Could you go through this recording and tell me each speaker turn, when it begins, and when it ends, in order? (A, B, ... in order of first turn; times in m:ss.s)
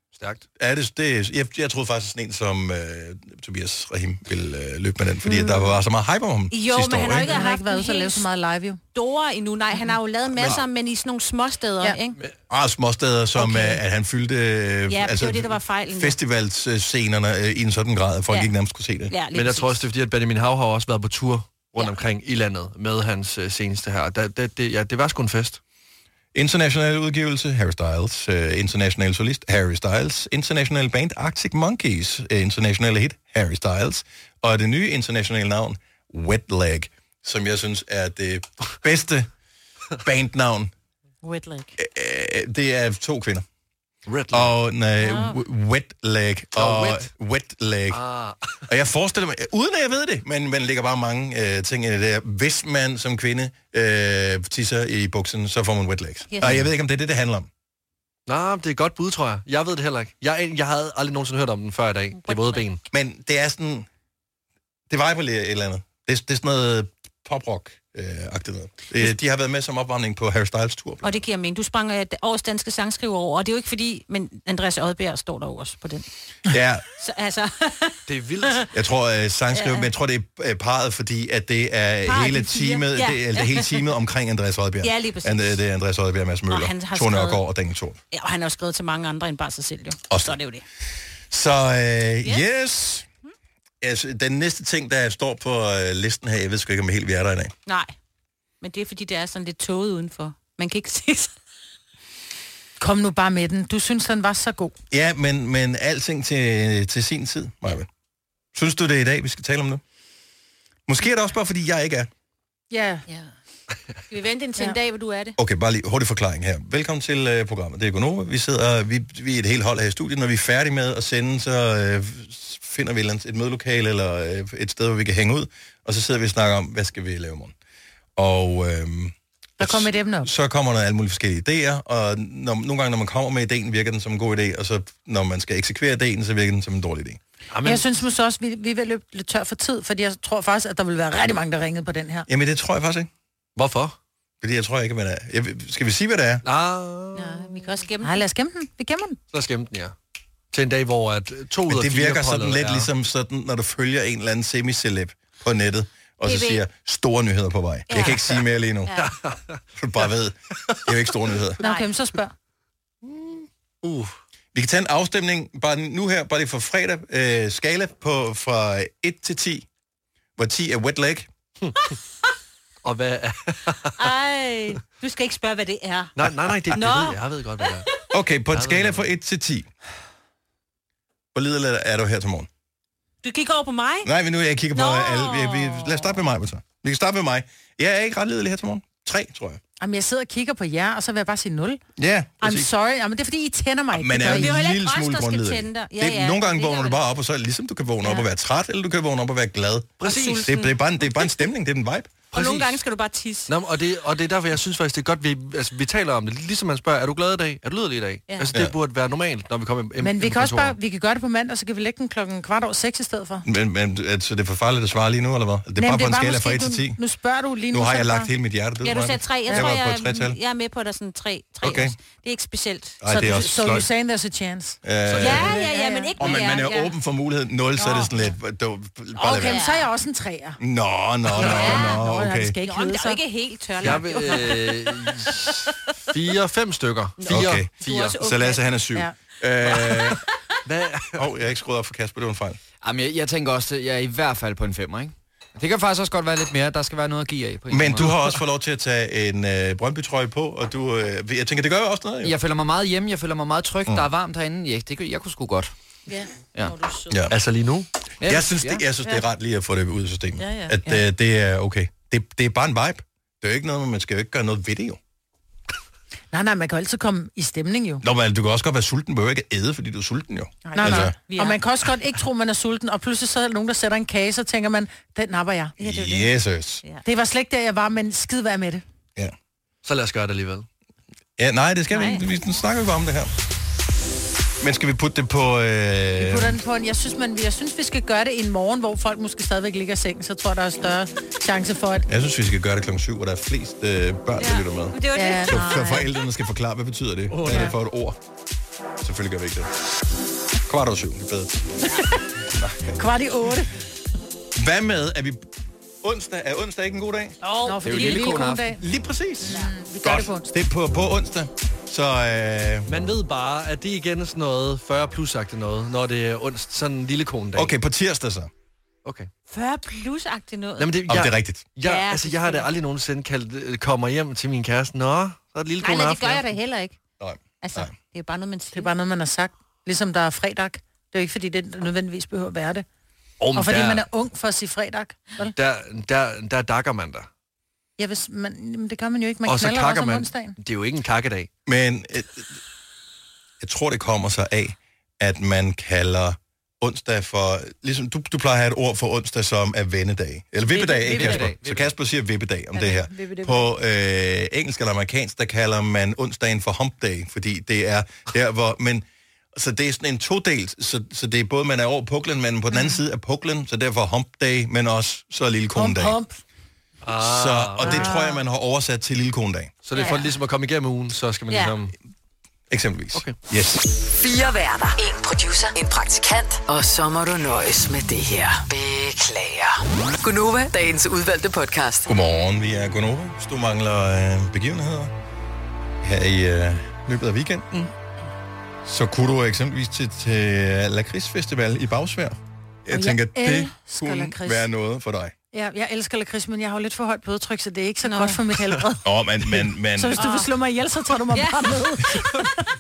0:00.2-0:00.4 A
0:00.6-0:07.4 B
0:06.5-0:08.3 C
0:07.3-0:08.8 D
0:08.9-0:12.2 C
0:12.5-0:19.1 B
0:13.4-0:13.8 C
0:14.9-0:16.2 C
0:19.1-0:19.8 C
0:19.3-0:25.6 A
0:26.3-0:39.3 B
0:40.0-0:40.7 B
0:41.2-0:41.7 D
0:41.8-0:43.4 B
0:44.1-0:44.5 A
0:44.3-0:48.0 B
0:45.0-0:45.3 C
0:46.6-0:47.1 A
0:47.9-0:48.6 A
0:48.7-0:57.5 B
0:56.3-0:56.6 C
0:58.3-1:02.8 A
1:02.1-1:02.7 C
1:02.9-1:03.9 B
1:04.9-1:11.2 B
1:11.0-1:16.1 C
1:16.4-1:16.8 B
1:17.0-1:18.7 C
1:18.1-1:18.7 A
1:18.7-1:28.0 B
1:19.5-1:19.9 C
1:22.0-1:23.9 C
1:24.8-1:25.6 C
1:26.5-1:27.4 C
1:28.1-1:30.6 C
1:30.1-1:30.4 B
1:31.3-1:33.1 B
1:33.8-1:37.5 B
1:37.7-1:37.9 C
1:38.6-1:41.3 C
1:42.8-1:44.7 D
1:44.9-1:47.9 B
1:48.5-1:49.8 B
1:50.9-1:52.1 B
1:52.7-1:53.0 D
1:54.1-1:55.4 C
1:55.4-2:07.5 B
2:08.2-2:17.2 B
2:09.6-2:10.3 D
2:17.5-2:17.9 A
2:17.6-2:22.3 D
2:22.3-2:23.1 B
2:23.6-2:24.0 A
2:24.4-2:26.4 B
2:26.4-2:27.5 A
2:27.1-2:28.2 C
2:28.0-2:29.2 D
2:29.3-2:30.0 A
2:30.5-2:32.9 A
2:31.7-2:39.0 B
2:36.2-2:36.6 C
2:37.9-2:38.2 C
2:38.9-2:39.1 C
2:39.0-2:39.6 A
2:39.8-2:41.6 B
2:41.6-2:42.3 D
2:41.6-2:41.9 C
2:43.8-2:44.1 A
2:44.5-2:49.7 B
2:50.4-2:51.3 B
2:51.6-2:52.0 A
2:52.8-2:54.0 A
2:54.0-2:56.1 C
2:56.2-2:57.9 A
2:56.7-2:58.0 C
2:58.1-2:59.7 B
2:58.5-2:59.0 A
3:01.3-3:02.5 B
3:03.2-3:04.1 C
3:04.0-3:09.6 B
3:04.7-3:06.2 C
3:09.8-3:11.8 D
3:12.0-3:12.7 B
3:12.4-3:14.5 D
3:13.9-3:22.1 B
3:14.2-3:17.0 C
3:20.0-3:20.6 A
3:20.0-3:21.3 C
3:22.3-3:22.8 A
3:22.3-3:23.5 C
3:23.5-3:30.8 A
3:30.0-3:33.4 D
3:33.4-3:37.0 B
3:35.8-3:38.3 D
3:37.7-3:40.4 B
3:38.8-3:43.0 C
3:41.6-3:42.0 B
3:43.0-3:43.9 B
3:43.1-3:44.8 D
3:44.8-3:45.6 B
3:45.0-3:45.6 A
3:45.2-3:46.9 C
3:45.4-3:46.1 D
3:46.2-3:49.6 B
3:49.2-3:50.6 D
3:49.4-3:49.9 C
3:50.6-3:52.6 B
3:51.3-3:52.0 C
3:51.4-3:53.2 D
3:52.6-3:55.7 C
3:53.8-3:58.2 A
3:57.2-3:58.6 C
3:57.3-4:00.2 B
3:59.7-4:00.1 A
4:00.7-4:01.2 A
4:01.1-4:02.6 B
4:02.8-4:08.1 E
4:07.7-4:12.3 B
4:08.0-4:08.3 A
4:12.2-4:15.7 E
4:16.1-4:17.2 C
4:17.1-4:17.4 B
4:17.3-4:17.9 A
4:18.2-4:18.8 E
4:18.2-4:25.0 B
4:20.4-4:20.7 C
4:26.3-4:28.0 D
4:28.0-4:31.2 B
4:30.6-4:31.6 C
4:30.7-4:35.7 D
4:35.8-4:36.3 C
4:35.8-4:36.8 B
4:37.0-4:38.8 D
4:39.8-4:40.7 A
4:41.4-4:43.3 B
4:41.9-4:42.2 C
4:44.6-4:46.6 B
4:46.2-4:52.0 D
4:52.1-4:58.2 B
4:54.4-4:56.0 C
4:55.1-4:56.1 D
4:57.4-4:57.7 D
4:59.0-4:59.7 B
5:00.7-5:01.6 B
5:02.5-5:03.0 B
5:03.0-5:03.7 D
5:04.6-5:05.4 B
5:06.0-5:07.4 B
5:07.4-5:08.4 C
5:07.6-5:08.8 D
5:07.8-5:08.7 E
5:08.8-5:12.9 B
5:09.4-5:10.5 D
5:12.9-5:17.7 A
5:17.5-5:18.5 B
5:19.0-5:19.3 A
5:19.5-5:21.1 C
5:20.8-5:26.4 A
5:21.1-5:21.6 B
5:21.8-5:22.7 C
5:25.8-5:27.0 C
5:27.2-5:27.9 B
5:27.6-5:28.9 C
5:28.7-5:32.9 D
5:33.4-5:34.1 A
5:33.5-5:35.6 D
5:35.5-5:37.3 A
5:38.0-5:40.6 D
5:39.4-5:41.5 A
5:41.7-5:42.6 B
5:43.6-6:06.2 B
5:50.7-5:51.4 D
5:51.1-5:51.8 A
5:52.7-5:53.7 D
6:05.7-6:06.4 D
6:07.0-6:08.1 A
6:07.2-6:09.7 B
6:07.8-6:08.4 D
6:09.8-6:11.9 A
6:10.0-6:10.3 C
6:12.7-6:13.9 B
6:14.0-6:22.1 F
6:22.0-6:25.1 B
6:26.0-6:27.9 B
6:28.8-6:35.3 B
6:32.9-6:34.7 D
6:35.5-6:39.0 D
6:38.0-6:38.4 C
6:39.0-6:40.3 B
6:39.9-6:42.5 D
6:40.2-6:40.5 C
6:41.3-6:42.4 C